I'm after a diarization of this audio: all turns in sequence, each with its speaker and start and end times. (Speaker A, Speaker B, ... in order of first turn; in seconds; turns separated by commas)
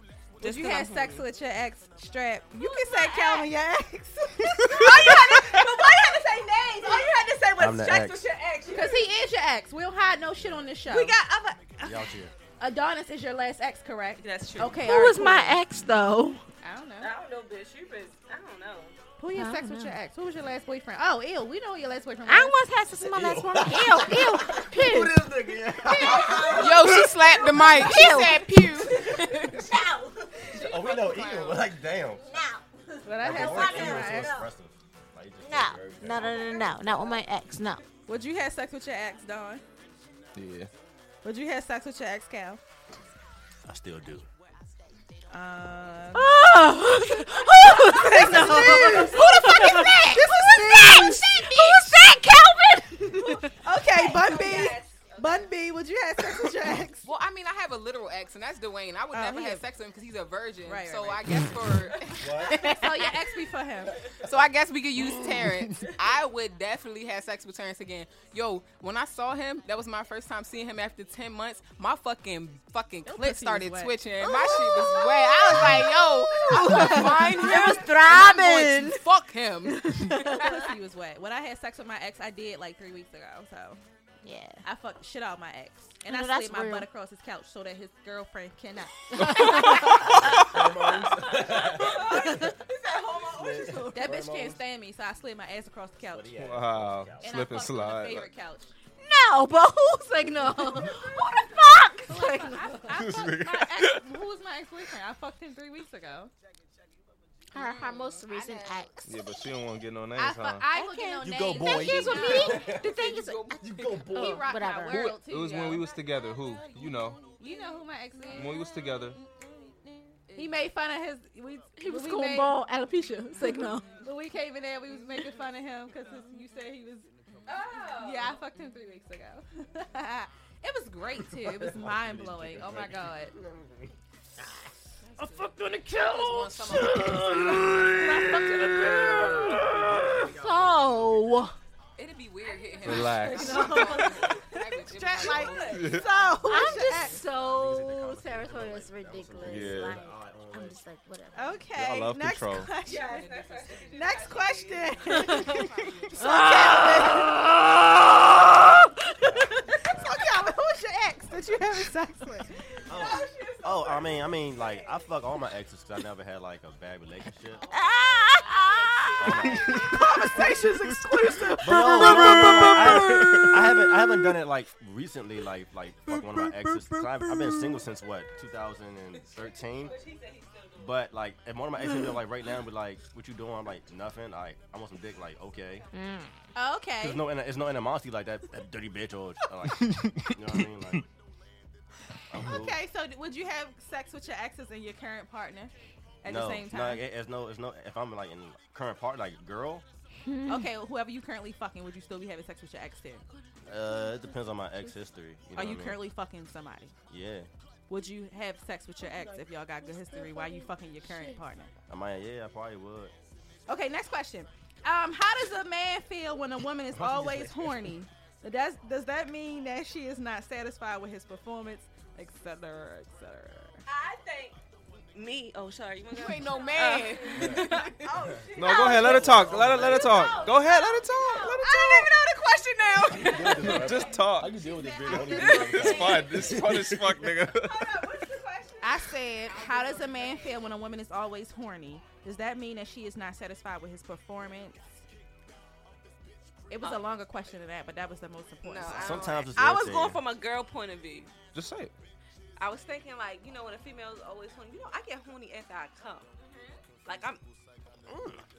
Speaker A: 0.4-1.3, Speaker B: 0.4-5.5, Speaker C: 2.6-3.5, Speaker A: 4.7-9.0, Speaker D: 7.6-8.3, Speaker B: 8.7-11.2, Speaker D: 10.4-10.7, Speaker A: 10.8-11.8, Speaker D: 11.8-12.3, Speaker B: 12.6-15.6, Speaker A: 14.2-14.9, Speaker C: 14.8-16.4, Speaker B: 16.6-17.1, Speaker A: 17.0-19.0, Speaker B: 19.2-22.6, Speaker C: 19.3-20.0, Speaker C: 22.3-30.6, Speaker D: 22.9-27.8, Speaker E: 26.5-29.6, Speaker D: 29.0-29.4, Speaker D: 30.4-32.3, Speaker E: 30.6-31.6, Speaker C: 32.2-34.5, Speaker B: 33.0-34.3, Speaker D: 33.2-37.1, Speaker C: 35.4-37.8, Speaker B: 38.1-39.6, Speaker F: 40.4-40.7, Speaker B: 41.2-42.6, Speaker D: 43.7-44.3, Speaker B: 45.3-46.3, Speaker C: 46.1-53.5, Speaker B: 47.8-51.9, Speaker A: 48.6-49.0, Speaker A: 53.3-55.5, Speaker B: 53.5-57.1, Speaker E: 57.0-62.6, Speaker B: 59.1-59.6, Speaker B: 60.7-61.5, Speaker D: 62.2-62.6, Speaker C: 62.5-63.1, Speaker B: 62.5-64.0, Speaker E: 64.2-79.9, Speaker B: 73.1-74.0, Speaker C: 74.2-79.0, Speaker C: 79.6-80.7, Speaker B: 80.4-83.8, Speaker C: 84.2-84.6, Speaker B: 84.6-89.4, Speaker C: 86.0-86.9, Speaker C: 89.1-90.5, Speaker F: 89.2-90.5, Speaker D: 90.1-92.2, Speaker A: 91.3-94.1, Speaker C: 91.9-92.5, Speaker D: 93.3-94.6, Speaker B: 93.9-96.3, Speaker D: 96.1-97.5, Speaker F: 96.4-98.3, Speaker B: 97.2-98.7, Speaker C: 99.0-102.9, Speaker B: 102.1-106.3, Speaker F: 103.0-104.0, Speaker C: 107.5-109.4, Speaker E: 107.5-108.9, Speaker F: 109.1-110.7, Speaker B: 110.2-112.6, Speaker C: 110.7-115.1, Speaker D: 111.2-112.9, Speaker E: 112.2-114.8, Speaker D: 113.6-114.4, Speaker B: 114.2-115.9, Speaker F: 114.9-117.2, Speaker E: 116.7-117.5, Speaker B: 117.4-118.6, Speaker F: 118.3-119.2, Speaker E: 120.3-120.5, Speaker B: 120.3-122.6, Speaker C: 121.8-123.9, Speaker B: 123.4-127.1, Speaker A: 127.5-128.3, Speaker B: 128.0-133.3, Speaker D: 131.2-133.9, Speaker C: 135.2-141.6, Speaker E: 136.0-138.8, Speaker D: 139.1-141.2, Speaker E: 142.0-146.1, Speaker A: 142.4-144.4, Speaker F: 142.8-143.6, Speaker B: 143.3-147.2, Speaker C: 143.5-143.9, Speaker A: 145.2-145.9, Speaker F: 145.7-146.1, Speaker C: 146.4-151.7, Speaker D: 146.6-150.8, Speaker F: 149.4-150.0, Speaker B: 151.3-153.2, Speaker F: 151.7-152.7, Speaker A: 152.8-155.3, Speaker E: 152.9-154.1, Speaker B: 153.9-157.4, Speaker E: 155.1-156.2, Speaker C: 155.3-155.6, Speaker C: 156.2-158.5, Speaker D: 159.2-160.2, Speaker B: 159.9-162.6, Speaker A: 162.9-165.1, Speaker D: 162.9-167.6, Speaker A: 167.5-170.0, Speaker C: 167.7-173.8, Speaker D: 169.2-169.6, Speaker B: 169.8-171.9, Speaker D: 170.3-170.7, Speaker F: 170.9-171.2, Speaker D: 171.6-179.9, Speaker F: 172.0-173.6, Speaker F: 176.1-177.4, Speaker C: 177.3-177.8, Speaker A: 179.1-181.1, Speaker D: 180.8-185.9, Speaker C: 185.9-186.4, Speaker B: 186.6-187.2, Speaker D: 187.0-191.0, Speaker F: 189.7-190.8, Speaker D: 192.3-192.8, Speaker B: 192.4-197.0, Speaker D: 196.2-199.8, Speaker C: 200.2-200.7, Speaker B: 200.5-203.3, Speaker D: 203.7-206.0, Speaker C: 203.9-204.4, Speaker B: 205.6-206.9, Speaker D: 207.1-207.5, Speaker B: 207.9-211.7, Speaker C: 209.0-211.4, Speaker D: 211.9-213.1, Speaker B: 213.7-223.8, Speaker D: 216.9-217.9, Speaker A: 223.9-224.6, Speaker A: 225.1-236.6, Speaker E: 226.1-228.1, Speaker D: 227.3-227.7, Speaker D: 228.4-230.5, Speaker F: 228.6-232.1, Speaker C: 230.0-231.6, Speaker B: 231.7-232.1, Speaker B: 233.1-233.7, Speaker D: 233.1-237.4, Speaker F: 233.6-234.6, Speaker B: 235.0-236.2, Speaker F: 235.6-238.0, Speaker A: 237.5-240.7, Speaker B: 238.8-245.0, Speaker B: 246.7-249.3, Speaker E: 248.6-249.5, Speaker D: 248.9-250.2, Speaker A: 249.5-251.3, Speaker F: 251.5-251.9, Speaker A: 252.6-256.3, Speaker A: 257.0-257.4, Speaker D: 258.1-258.4